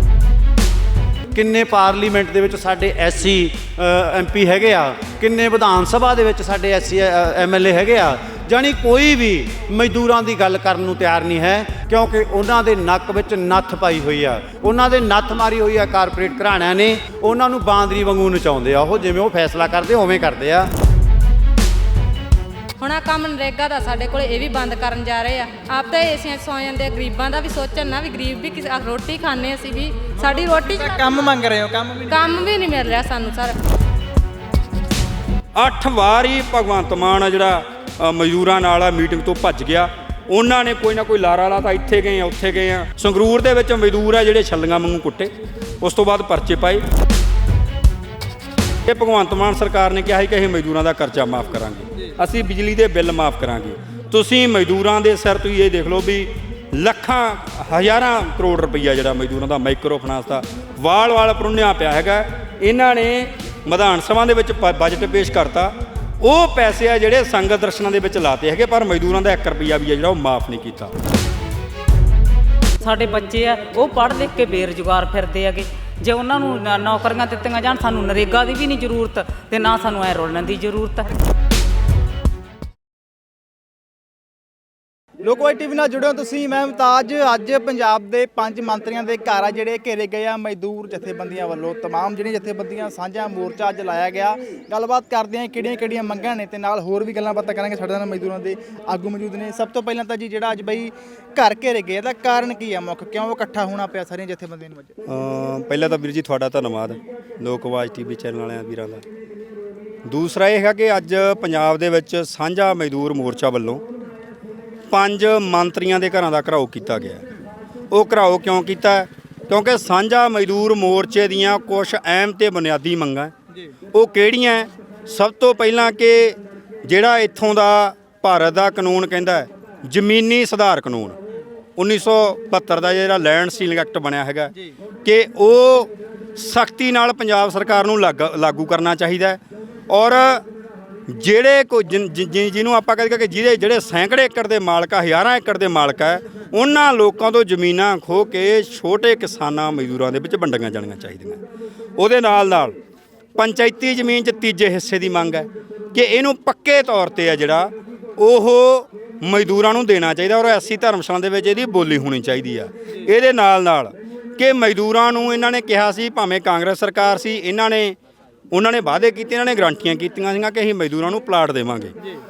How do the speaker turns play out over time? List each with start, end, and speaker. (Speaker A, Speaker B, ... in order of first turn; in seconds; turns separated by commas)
Speaker A: 1.3-20.7, Speaker B: 22.8-31.2, Speaker C: 30.2-32.4, Speaker B: 32.1-33.5, Speaker D: 35.5-46.8, Speaker D: 48.9-70.9, Speaker E: 72.8-81.1, Speaker C: 85.2-104.9, Speaker D: 105.0-109.0, Speaker D: 110.0-113.8, Speaker D: 114.9-117.2, Speaker D: 117.9-123.3, Speaker D: 123.9-131.2, Speaker D: 131.8-134.5, Speaker D: 135.0-140.4, Speaker D: 141.1-151.4, Speaker D: 152.0-152.7, Speaker D: 153.3-168.0, Speaker D: 168.5-171.9